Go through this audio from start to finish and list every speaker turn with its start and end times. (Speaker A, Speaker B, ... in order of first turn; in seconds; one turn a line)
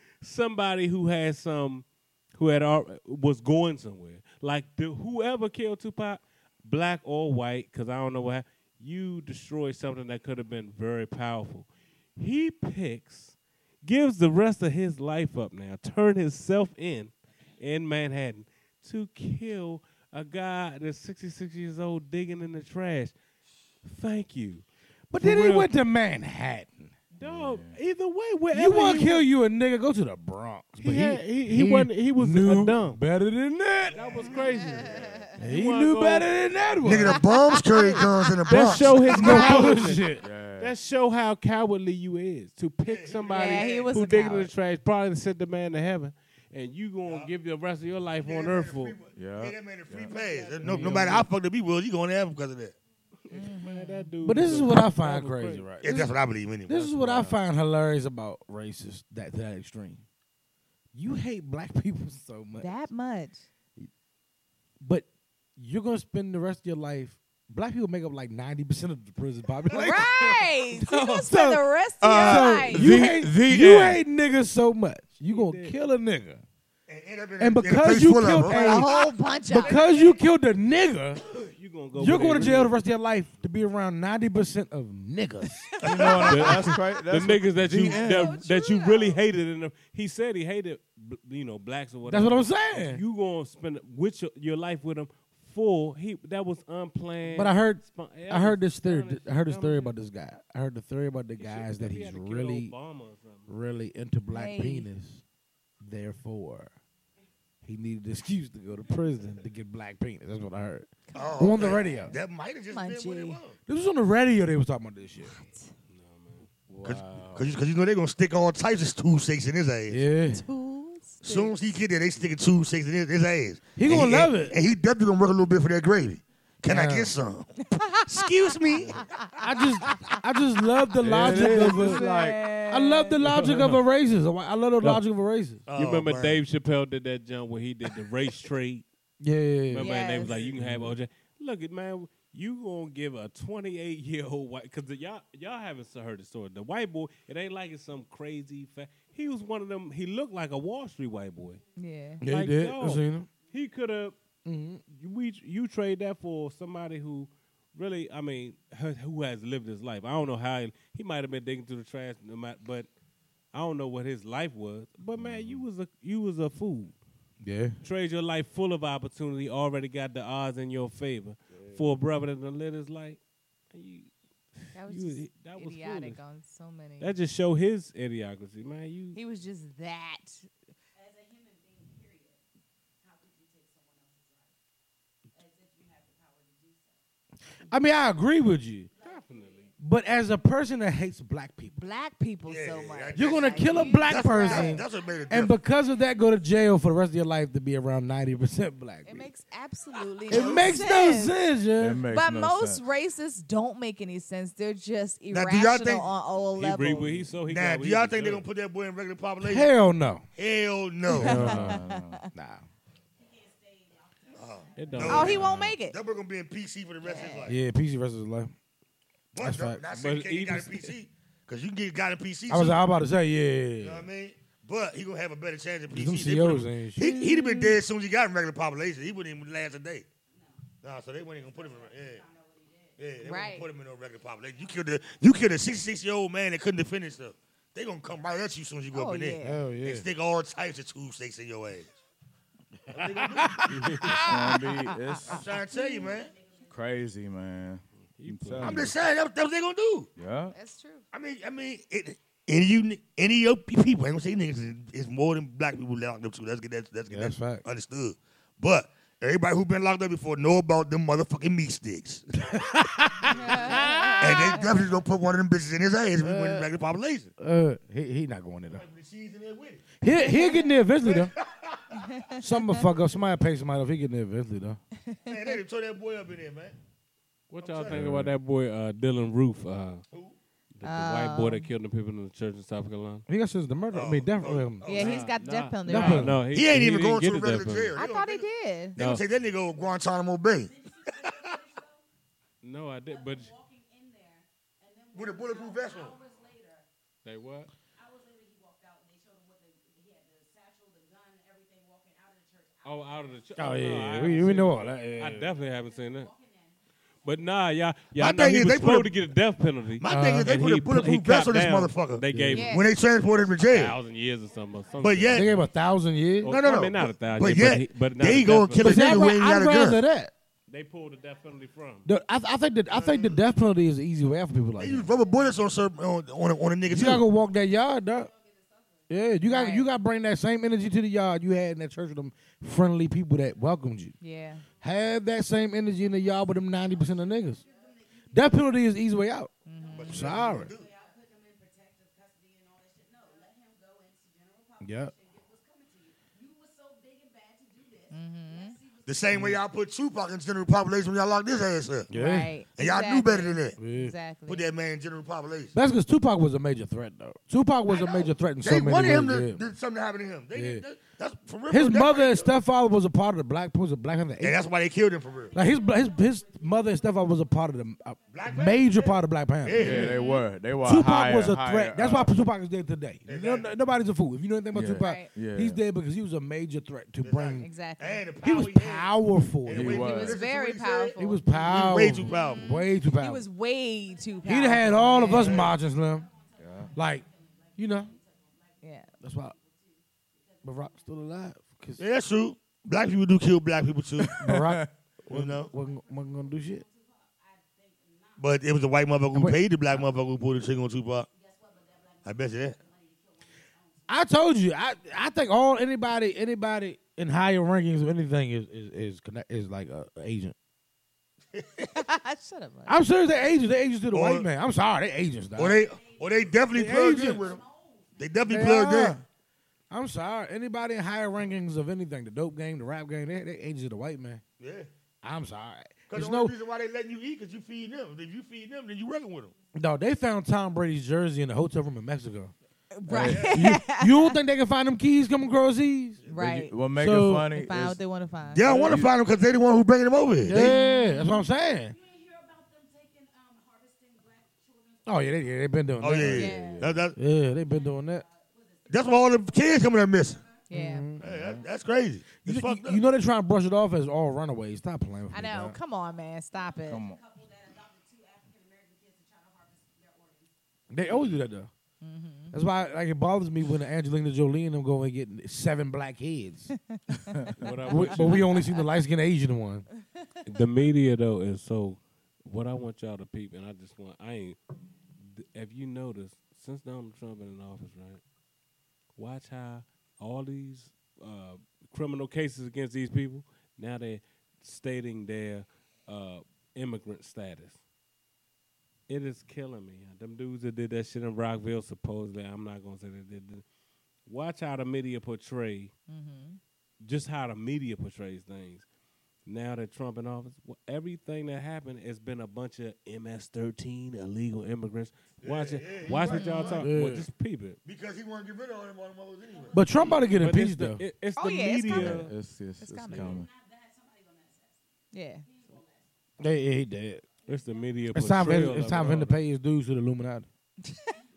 Speaker A: 0.2-23.1
Speaker A: 23.8-24.6
Speaker B: 25.1-26.9
Speaker A: 25.2-25.7
Speaker A: 27.1-29.3
Speaker C: 27.2-27.8
Speaker B: 28.5-33.9
Speaker A: 30.8-33.0
Speaker A: 33.9-36.3
Speaker D: 33.9-35.1
Speaker B: 35.4-37.2
Speaker D: 36.8-39.7
Speaker E: 37.1-38.2
Speaker A: 38.5-49.0
Speaker B: 39.0-40.2
Speaker E: 39.2-39.7
Speaker C: 40.2-40.7
Speaker D: 42.8-43.9
Speaker E: 43.3-44.5
Speaker D: 48.2-52.7
Speaker C: 49.1-50.1
Speaker A: 50.1-51.3
Speaker B: 50.6-51.1
Speaker A: 53.2-55.7
Speaker E: 53.3-54.1
Speaker B: 54.2-56.1
Speaker D: 55.8-56.9
Speaker B: 56.7-60.0
Speaker C: 56.9-57.3
Speaker B: 60.9-62.7
Speaker E: 62.6-63.5
Speaker B: 64.8-76.4
Speaker E: 69.7-72.9
Speaker C: 72.0-74.0
Speaker A: 75.2-75.8
Speaker D: 76.9-78.8
Speaker B: 77.4-78.9
Speaker E: 78.4-80.1
Speaker B: 79.5-81.2
Speaker F: 79.6-80.2
Speaker A: 81.4-82.8
Speaker B: 82.0-85.8
Speaker E: 85.8-86.8
Speaker C: 85.8-88.4
Speaker A: 86.2-100.0
Speaker E: 87.9-89.1
Speaker B: 92.1-93.0
Speaker B: 97.3-102.7
Speaker A: 101.4-103.5
Speaker B: 103.5-105.2
Speaker E: 104.3-104.9
Speaker B: 105.8-106.7
Speaker B: 107.6-110.9
Speaker E: 111.1-112.1
Speaker D: 111.1-113.6
Speaker B: 111.4-112.1
Speaker E: 112.7-113.4
Speaker B: 113.7-115.3
Speaker E: 115.3-115.7
Speaker A: 115.9-116.5
Speaker C: 116.7-117.5
Speaker D: 116.8-120.0
Speaker B: 119.9-120.4
Speaker E: 120.3-121.5
Speaker D: 121.2-127.5
Speaker B: 123.8-124.6
Speaker B: 126.7-127.1
Speaker E: 127.6-128.3
Speaker D: 128.1-129.0
Speaker E: 129.0-130.2
Speaker B: 129.4-132.0
Speaker C: 131.0-132.4
Speaker E: 131.2-133.2
Speaker B: 132.6-135.6
Speaker A: 133.2-133.8
Speaker D: 135.7-136.4
Speaker A: 135.7-138.8
Speaker B: 139.2-140.1
Speaker A: 139.7-151.6
Speaker E: 139.8-140.4
Speaker C: 140.6-140.9
Speaker E: 151.8-152.2
Speaker B: 152.2-153.3
Speaker A: 152.2-154.2
Speaker B: 154.4-154.8
Speaker A: 154.8-162.9
Speaker A: 163.5-166.9
Speaker C: 165.2-165.6
Speaker B: 167.4-167.8
Speaker A: 167.8-173.2
Speaker A: 173.7-176.2
Speaker E: 174.7-177.1
Speaker A: 177.0-179.2
Speaker E: 179.1-180.5
Speaker F: 180.9-182.4
Speaker F: 183.0-184.5
Speaker F: 185.3-187.0
Speaker B: 187.7-188.9
Speaker F: 188.9-189.7
Speaker A: 189.0-189.7
Speaker B: 189.8-191.8
Speaker E: 191.8-194.8
Speaker D: 192.5-195.6
Speaker B: 193.1-199.3
Speaker F: 195.3-196.1
Speaker E: 199.0-201.3
Speaker B: 200.3-202.0
Speaker D: 200.3-200.8
Speaker C: 201.8-202.8
Speaker E: 202.1-207.2
Speaker D: 205.3-206.1
Speaker A: 206.6-208.4
Speaker D: 207.5-209.7
Speaker B: 209.4-210.2
Speaker D: 210.3-211.5
Speaker B: 211.1-211.8
Speaker E: 211.1-212.3
Speaker C: 211.2-212.3
Speaker B: 212.3-212.6
Speaker F: 213.2-215.2
Speaker D: 214.3-217.6
Speaker A: 214.8-215.6
Speaker E: 215.0-216.0
Speaker C: 215.1-215.7
Speaker E: 217.0-217.4
Speaker B: 217.5-218.5
Speaker D: 219.3-222.8
Speaker B: 219.4-219.8
Speaker A: 219.9-220.9
Speaker B: 222.5-224.1
Speaker D: 223.8-230.1
Speaker B: 225.9-227.0
Speaker E: 227.0-227.8
Speaker F: 230.3-230.7
Speaker D: 230.8-232.2
Speaker F: 231.4-233.4
Speaker D: 233.0-241.9
Speaker E: 233.2-233.7
Speaker E: 238.9-239.6
Speaker B: 239.4-240.1
Speaker B: 242.9-244.6
Speaker D: 242.9-244.0
Speaker A: 243.7-244.2
Speaker C: 244.2-245.4
Speaker E: 244.5-246.1
Speaker D: 245.2-246.3
Speaker F: 245.8-246.8
Speaker C: 246.7-248.9
Speaker A: 248.2-248.9
Speaker D: 248.6-250.1
Speaker C: 250.2-250.5
Speaker E: 250.5-251.0
Speaker D: 251.1-262.5
Speaker B: 257.1-257.6
Speaker B: 262.5-264.2
Speaker E: 263.4-264.6
Speaker D: 264.2-267.3
Speaker B: 266.2-266.7
Speaker B: 267.4-268.8
Speaker D: 268.7-269.9
Speaker B: 270.0-271.3
Speaker E: 270.2-270.6
Speaker D: 271.0-271.9
Speaker E: 271.9-272.4
Speaker B: 272.4-274.8
Speaker E: 275.0-275.6
Speaker D: 275.2-276.7
Speaker A: 277.5-280.0
Speaker D: 277.6-278.0
Speaker C: 277.9-278.3
Speaker A: 280.8-283.2
Speaker E: 280.8-281.7
Speaker B: 283.3-285.0
Speaker D: 283.9-285.2
Speaker E: 284.8-286.3
Speaker A: 284.9-288.0
Speaker B: 285.9-286.5
Speaker D: 286.5-290.7
Speaker E: 287.9-289.0
Speaker A: 289.0-289.2
Speaker F: 290.5-292.0
Speaker A: 292.6-293.5
Speaker F: 293.1-296.9
Speaker D: 295.1-296.1
Speaker A: 297.2-297.7
Speaker F: 297.9-303.4
Speaker A: 302.8-306.3
Speaker B: 303.6-305.5
Speaker F: 304.7-304.9
Speaker F: 305.6-306.8
Speaker A: 307.2-312.8
Speaker D: 308.2-309.1
Speaker D: 310.0-313.9
Speaker B: 310.1-310.6
Speaker B: 312.3-312.7
Speaker E: 312.5-312.9
Speaker A: 313.6-315.7
Speaker F: 314.6-315.8
Speaker D: 315.0-315.5
Speaker B: 315.3-316.6
Speaker A: 316.4-319.2
Speaker D: 316.4-320.0
Speaker B: 318.8-320.3
Speaker A: 320.7-322.1
Speaker B: 322.0-325.1
Speaker D: 322.9-323.3
Speaker D: 324.8-327.2
Speaker F: 325.1-325.5
Speaker B: 326.9-328.3
Speaker F: 327.9-329.1
Speaker B: 329.1-334.1
Speaker E: 329.5-329.9
Speaker E: 334.2-334.6
Speaker B: 334.8-337.6
Speaker F: 335.9-338.9
Speaker B: 338.3-339.5
Speaker E: 339.7-340.3
Speaker F: 339.7-349.5
Speaker D: 339.9-340.9
Speaker B: 340.1-340.7
Speaker B: 344.8-345.1
Speaker E: 348.1-348.8
Speaker D: 349.1-352.1
Speaker B: 352.1-352.6
Speaker E: 352.1-354.6
Speaker D: 352.7-353.8
Speaker B: 353.8-354.1
Speaker D: 354.5-355.7
Speaker B: 355.7-359.6
Speaker D: 358.6-362.5
Speaker B: 360.5-360.8
Speaker B: 361.7-364.6
Speaker D: 364.4-365.5
Speaker F: 365.2-369.1
Speaker B: 365.5-370.1
Speaker D: 368.3-370.2
Speaker C: 369.7-372.3
Speaker F: 370.0-370.5
Speaker B: 370.8-377.7
Speaker D: 373.2-373.7
Speaker C: 374.7-375.8
Speaker E: 375.0-375.3
Speaker D: 377.2-382.7
Speaker E: 377.6-378.2
Speaker B: 378.4-380.0
Speaker C: 379.7-380.4
Speaker E: 379.9-381.7
Speaker B: 381.2-383.4
Speaker F: 381.5-383.3
Speaker E: 382.6-385.6
Speaker F: 383.9-391.4
Speaker B: 384.4-386.3
Speaker D: 385.2-385.8
Speaker C: 386.6-386.9
Speaker B: 386.9-387.2
Speaker B: 387.8-388.1
Speaker E: 388.8-389.1
Speaker B: 389.2-389.5
Speaker B: 390.6-392.0
Speaker D: 392.0-394.4
Speaker C: 394.2-394.9
Speaker B: 394.4-396.8
Speaker D: 395.3-395.7
Speaker F: 395.7-398.6
Speaker D: 398.4-401.3
Speaker B: 399.3-400.0
Speaker F: 401.3-404.3
Speaker D: 402.2-402.8
Speaker B: 404.1-410.5
Speaker D: 411.5-411.9
Speaker E: 411.9-413.0
Speaker B: 412.9-415.8
Speaker D: 414.1-414.5
Speaker D: 415.6-417.6
Speaker F: 415.8-418.3
Speaker B: 416.7-417.4
Speaker D: 418.2-419.2
Speaker B: 418.5-419.2
Speaker B: 419.9-424.4
Speaker D: 424.6-424.9
Speaker B: 425.2-426.5
Speaker D: 426.1-429.5
Speaker B: 429.7-432.5
Speaker E: 432.9-434.4
Speaker C: 433.1-433.4
Speaker D: 433.2-433.6
Speaker B: 433.2-436.3
Speaker E: 436.3-436.7
Speaker C: 436.3-438.0
Speaker B: 436.9-437.5
Speaker E: 437.5-438.7
Speaker D: 438.5-440.8
Speaker C: 438.6-439.1
Speaker B: 440.4-441.9
Speaker E: 440.5-441.4
Speaker F: 441.9-445.7
Speaker B: 445.1-446.5
Speaker D: 446.0-447.2
Speaker C: 446.1-447.0
Speaker E: 446.3-446.8
Speaker B: 447.1-448.2
Speaker F: 447.4-449.8
Speaker D: 448.9-450.4
Speaker F: 450.3-450.6
Speaker E: 450.7-451.1
Speaker B: 450.7-451.4
Speaker D: 451.2-453.0
Speaker C: 451.3-451.6
Speaker B: 452.3-455.8
Speaker E: 455.3-457.0
Speaker F: 456.5-460.5
Speaker C: 456.9-457.2
Speaker B: 460.9-461.7
Speaker E: 462.0-462.6
Speaker B: 462.5-466.7
Speaker E: 466.9-467.4
Speaker C: 467.3-467.6
Speaker A: 467.6-468.6
Speaker B: 467.9-469.9
Speaker A: 470.4-474.6
Speaker A: 475.2-478.2
Speaker A: 479.1-487.8
Speaker A: 489.1-493.6
Speaker A: 494.3-495.9
Speaker E: 496.1-496.6
Speaker A: 497.0-498.8
Speaker A: 499.4-507.8
Speaker D: 505.4-506.8
Speaker E: 506.2-506.8
Speaker B: 506.8-507.3
Speaker D: 507.8-510.1
Speaker F: 509.4-510.6
Speaker B: 509.7-511.0
Speaker A: 510.2-512.3
Speaker E: 511.4-513.4
Speaker C: 511.9-513.5
Speaker F: 513.1-516.1
Speaker E: 515.1-515.4
Speaker B: 516.4-517.2
Speaker F: 517.4-518.8
Speaker A: 517.5-519.4
Speaker B: 518.1-520.5
Speaker E: 520.9-521.1